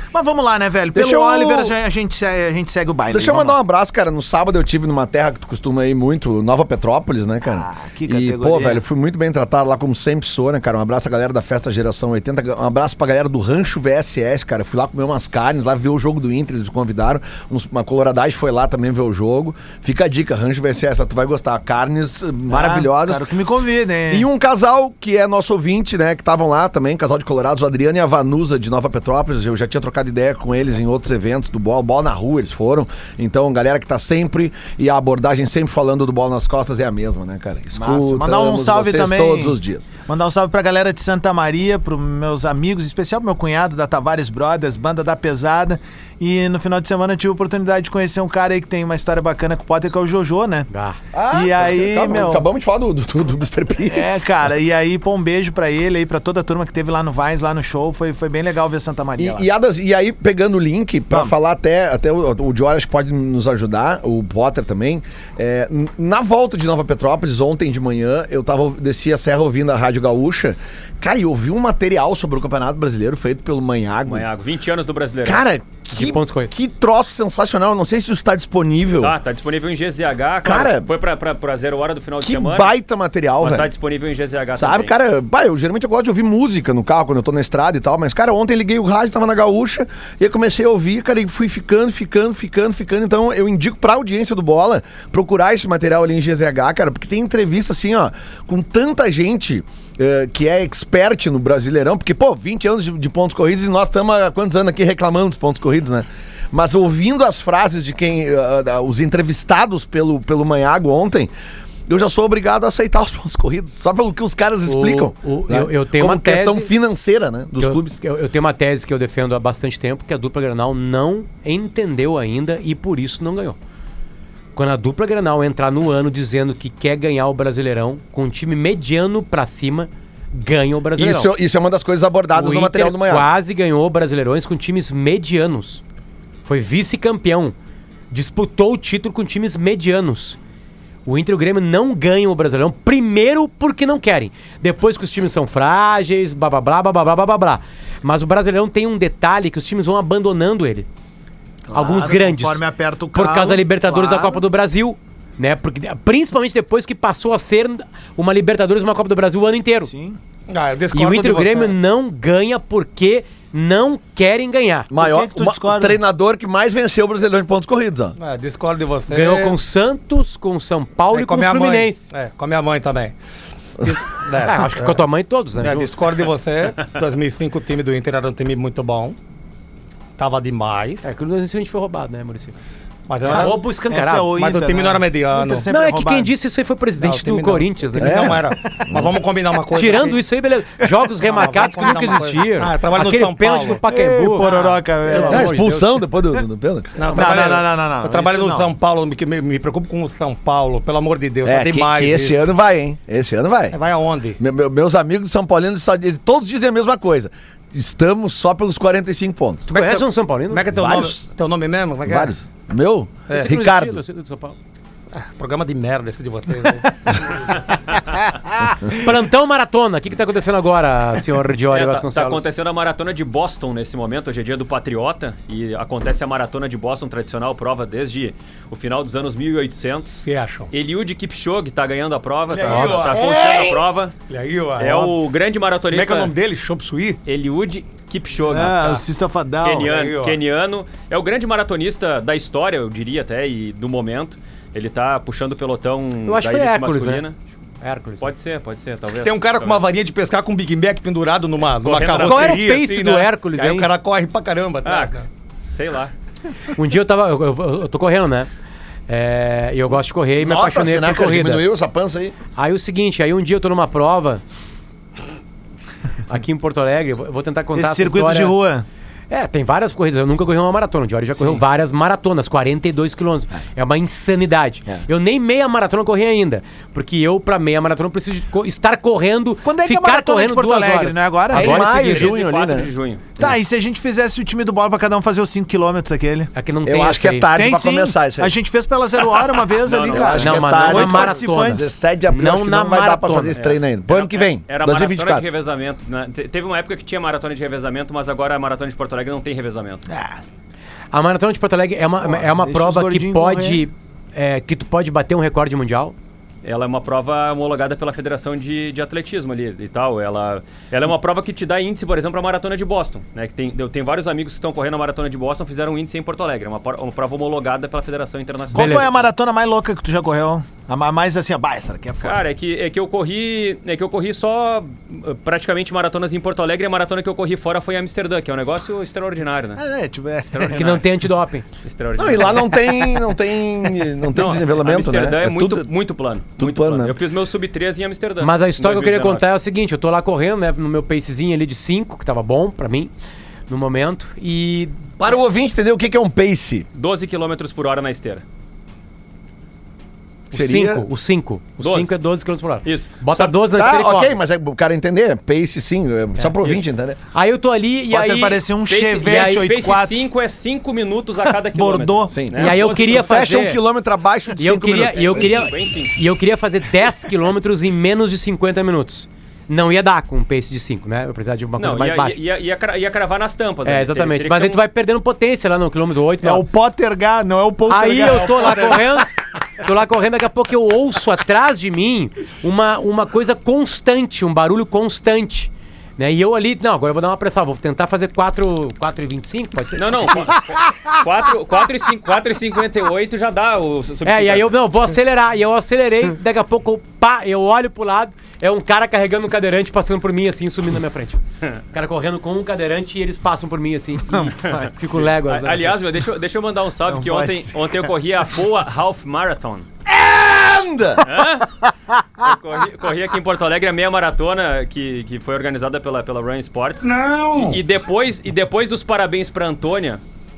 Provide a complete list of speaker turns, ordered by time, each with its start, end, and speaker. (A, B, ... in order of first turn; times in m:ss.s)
0:00.1-0:03.6 A
0:00.9-0:01.7 B
0:03.1-0:23.3 B
0:07.4-0:08.8 A
0:22.5-0:24.3 A
0:24.1-0:39.9 B
0:37.7-0:50.7 A
0:50.7-0:51.0 C
0:51.1-0:54.1 B
0:51.3-0:52.5 A
0:53.9-0:59.5 A
0:59.2-1:14.3 B
1:14.1-1:15.4 D
1:15.2-1:19.2 B
1:15.9-1:16.5 C
1:19.0-1:22.8 D
1:20.4-1:20.9 B
1:22.2-1:23.7 B
1:23.4-1:24.9 D
1:24.6-1:51.3 B
1:51.9-1:58.0 B
1:54.7-1:56.7 C
1:57.6-2:03.6 C
2:04.6-2:11.3 C
2:11.0-2:13.3 B
2:12.3-2:15.8 C
2:16.4-2:17.6 C
2:18.1-2:20.4 C
2:21.1-2:30.9 C
2:31.7-2:34.4 A
2:31.7-2:39.9 C
2:39.9-2:40.2 A
2:40.5-2:41.8 E
2:40.9-2:44.9 C
2:44.9-2:48.2 B
2:45.0-2:46.0 A
2:48.2-2:49.6 E
2:49.1-2:52.1 C
2:51.1-2:53.2 E
2:53.8-2:55.0 E
2:54.4-2:56.0 C
2:55.6-2:59.2 E
3:00.2-3:01.1 E
3:01.0-3:02.6 C
3:03.1-3:03.6 E
3:03.2-3:04.3 C
3:03.3-3:06.3 A
3:04.4-3:05.7 E
3:05.7-3:08.4 C
3:07.0-3:10.2 E
3:08.0-3:09.1 B
3:09.7-3:16.0 C
3:11.2-3:14.8 E
3:13.9-3:15.7 A
3:15.2-3:17.0 B
3:17.0-3:22.4 E
3:17.1-3:18.7 A
3:17.1-3:17.4 C
3:21.4-3:23.8 B
3:23.7-3:24.4 E
3:24.4-3:29.7 B
3:29.7-3:30.7 C
3:29.7-3:32.4 E
3:30.7-3:31.2 B
3:32.1-3:34.0 B
3:33.3-3:34.6 C
3:35.1-3:37.6 E
3:38.9-3:42.4 C
3:41.7-3:54.2 D
3:50.2-3:50.7 E
3:52.5-3:55.2 E
3:52.7-3:53.1 C
3:54.8-3:56.3 D
3:55.9-3:57.2 E
3:57.3-3:59.0 D
3:58.5-3:59.9 A
3:58.7-3:59.0 E
3:59.6-4:07.4 D
3:59.8-4:00.4 E
4:06.3-4:07.2 C
4:07.8-4:08.3 C
4:08.2-4:09.8 D
4:09.1-4:15.3 E
4:11.8-4:12.6 D
4:12.2-4:13.9 C
4:14.8-4:15.2 D
4:15.7-4:16.1 D
4:16.7-4:18.5 C
4:19.1-4:21.7 C
4:20.4-4:22.4 B
4:22.6-4:24.4 C
4:26.3-4:28.6 C
4:27.8-4:28.9 A
4:29.3-4:42.3 C
4:39.6-4:41.8 A
4:41.5-4:43.6 B
4:41.8-4:43.3 D
4:43.4-4:46.5 A
4:46.6-4:47.5 C
4:46.8-4:48.6 B
4:47.5-4:51.9 A
4:49.8-4:50.6 D
4:50.1-4:55.5 B
4:50.4-4:53.6 C
4:53.6-5:00.0 D
5:00.1-5:00.4 A
5:01.1-5:06.2 C
5:02.2-5:03.8 A
5:06.6-5:19.2 D
5:18.7-5:22.4 A
5:18.7-5:19.1 C
5:22.2-5:29.8 D
5:29.8-5:31.1 A
5:30.5-5:31.0 D
5:30.6-5:31.6 C
5:31.8-5:32.8 D
5:32.2-5:35.9 B
5:34.3-5:39.4 D
5:36.6-5:37.2 B
5:38.4-5:43.1 C
5:43.7-5:45.0 C
5:45.2-5:46.9 B
5:46.9-5:48.4 D
5:50.5-5:54.4 C
5:50.5-5:51.1 B
5:51.8-5:52.1 D
5:52.8-5:53.5 D
5:53.7-5:57.2 B
5:56.6-5:56.9 D
5:57.3-5:58.6 C
5:58.1-6:00.2 A
5:58.9-6:03.4 D
5:59.2-5:59.7 C
6:01.5-6:02.4 A
6:02.3-6:05.6 B
6:02.6-6:03.8 C
6:04.6-6:12.4 C
6:05.2-6:06.2 D
6:11.8-6:14.8 D
6:13.8-6:16.6 C
6:16.4-6:19.0 A
6:17.9-6:30.5 C
6:30.0-6:34.7 D
6:34.2-6:41.4 C
6:41.9-6:46.0 C
6:44.3-6:45.3 A
6:45.5-6:49.9 D
6:47.1-6:48.1 A
6:50.1-6:51.4 B
6:51.2-6:51.7 D
6:52.4-7:00.2 D